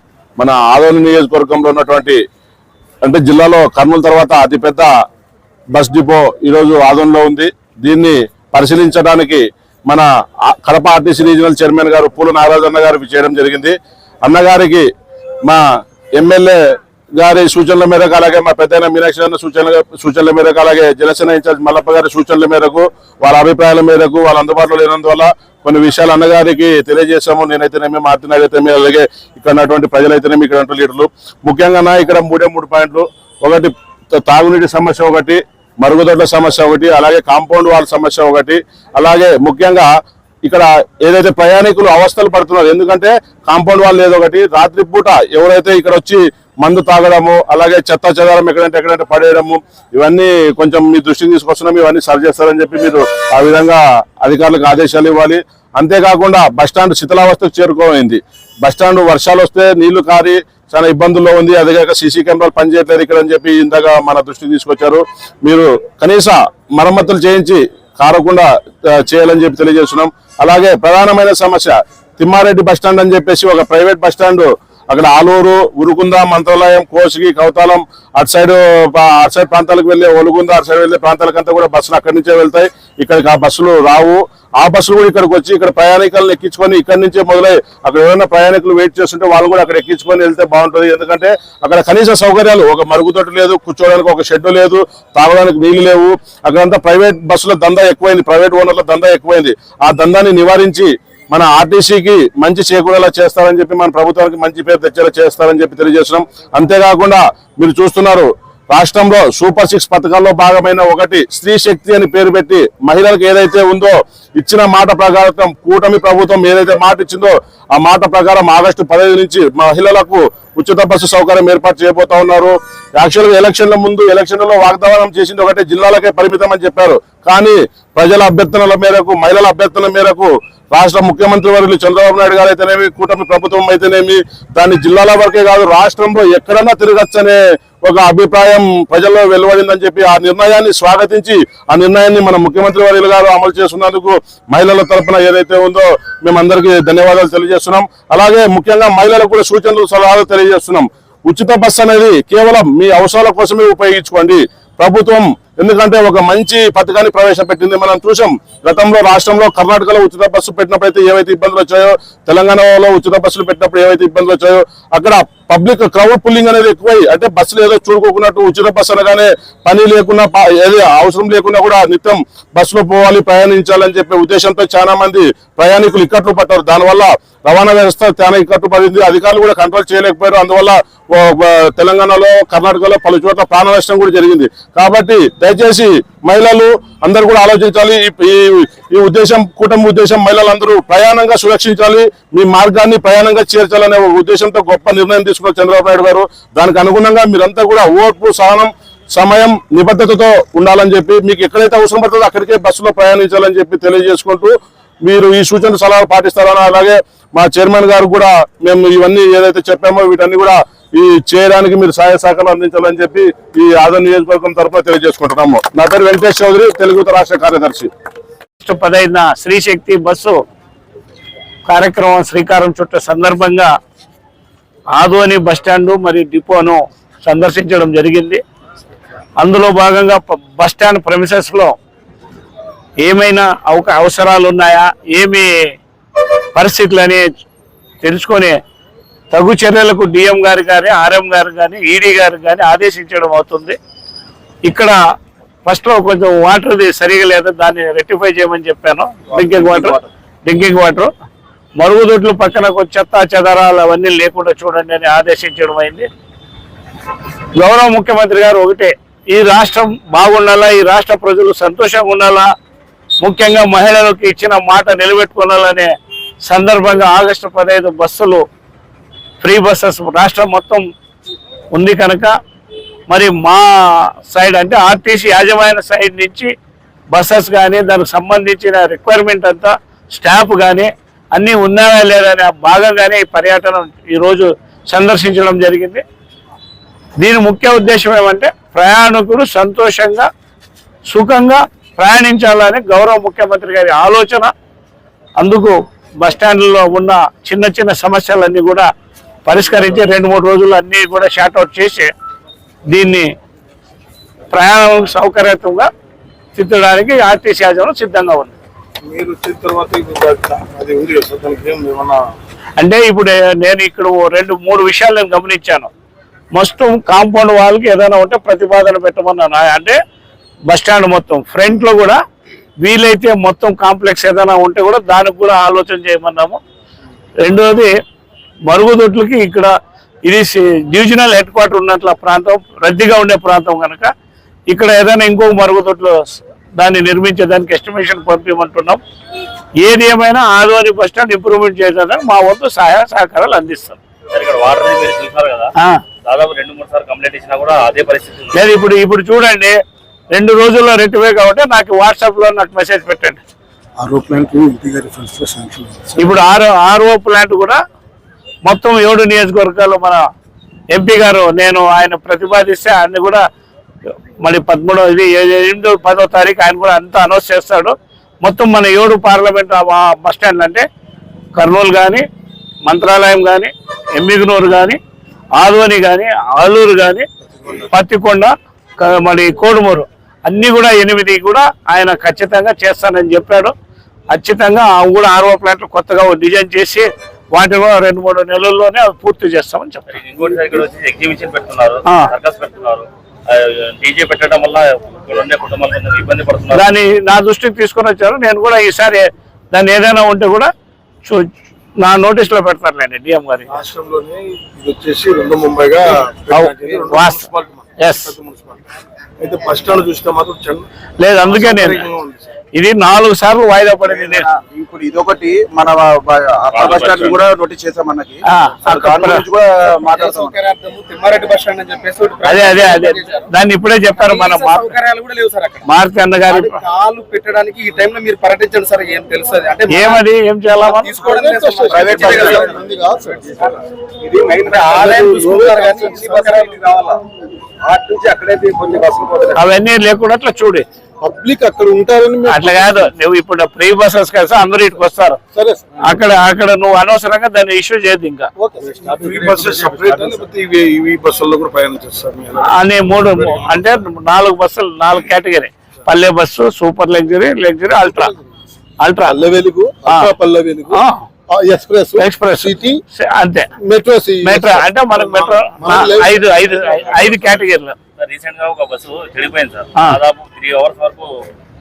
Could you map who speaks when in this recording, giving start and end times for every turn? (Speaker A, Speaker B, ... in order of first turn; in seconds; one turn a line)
Speaker A: 0.4-2.2
Speaker A: 3.0-4.9
Speaker A: 5.7-14.8
Speaker A: 16.2-16.6
Speaker A: 17.2-39.9
Speaker A: 40.4-217.9
Speaker B: 218.6-220.3
Speaker B: 221.7-223.7
Speaker B: 224.9-228.4
Speaker B: 229.4-231.7
Speaker B: 233.0-235.5
Speaker B: 236.5-237.2
Speaker B: 238.0-238.5
Speaker B: 239.3-243.8
Speaker B: 244.6-244.9
Speaker B: 245.7-251.1
Speaker C: 249.6-249.9
Speaker B: 251.8-256.1
Speaker B: 257.6-262.4
Speaker B: 263.2-265.9
Speaker B: 266.4-268.4
Speaker B: 269.4-270.8
Speaker B: 271.7-272.3
Speaker B: 273.1-273.6
Speaker B: 274.3-276.5
Speaker B: 277.1-286.0
Speaker B: 287.2-290.3
Speaker B: 291.1-294.5
Speaker B: 295.4-298.9
Speaker B: 299.4-302.1
Speaker B: 302.9-303.3
Speaker B: 304.5-305.9
Speaker B: 306.6-308.5
Speaker D: 309.1-312.3
Speaker B: 312.8-315.9
Speaker B: 316.5-319.9
Speaker B: 320.7-322.2
Speaker B: 322.8-326.6
Speaker B: 327.4-327.9
Speaker B: 328.7-329.7
Speaker B: 330.2-334.1
Speaker B: 334.7-339.0
Speaker B: 339.8-344.0
Speaker E: 344.3-345.7
Speaker E: 346.2-348.6
Speaker B: 348.5-349.7
Speaker B: 350.3-353.4
Speaker D: 354.0-356.4
Speaker B: 356.1-357.8
Speaker B: 358.7-360.2
Speaker B: 360.9-363.4
Speaker B: 364.4-370.8
Speaker B: 371.6-372.2
Speaker B: 372.8-375.0
Speaker B: 375.6-377.2
Speaker B: 377.9-383.7
Speaker B: 384.3-390.1
Speaker E: 390.1-396.8
Speaker B: 396.7-400.7
Speaker B: 402.0-403.8
Speaker D: 403.7-408.8
Speaker B: 406.5-408.3
Speaker D: 409.4-410.9
Speaker B: 411.2-412.1
Speaker D: 411.4-412.4
Speaker B: 412.7-414.4
Speaker C: 414.0-420.6
Speaker E: 416.7-417.4
Speaker B: 418.4-419.4
Speaker F: 420.1-423.5
Speaker B: 422.4-424.9
Speaker F: 424.1-425.9
Speaker B: 425.8-426.8
Speaker F: 426.5-437.2
Speaker B: 429.9-431.2
Speaker D: 431.2-433.7
Speaker C: 431.9-432.7
Speaker D: 434.7-436.8
Speaker F: 437.9-439.6
Speaker B: 439.6-440.8
Speaker D: 441.2-443.1
Speaker B: 442.4-445.4
Speaker D: 445.5-446.0
Speaker B: 446.0-448.5
Speaker D: 448.6-453.8
Speaker C: 448.9-450.4
Speaker B: 452.6-458.3
Speaker D: 458.0-458.3
Speaker B: 459.0-459.4
Speaker D: 459.3-461.0
Speaker B: 460.0-460.3
Speaker B: 460.9-461.2
Speaker D: 461.5-463.0
Speaker B: 462.1-463.7
Speaker D: 463.8-467.4
Speaker B: 464.4-467.9
Speaker E: 468.2-471.3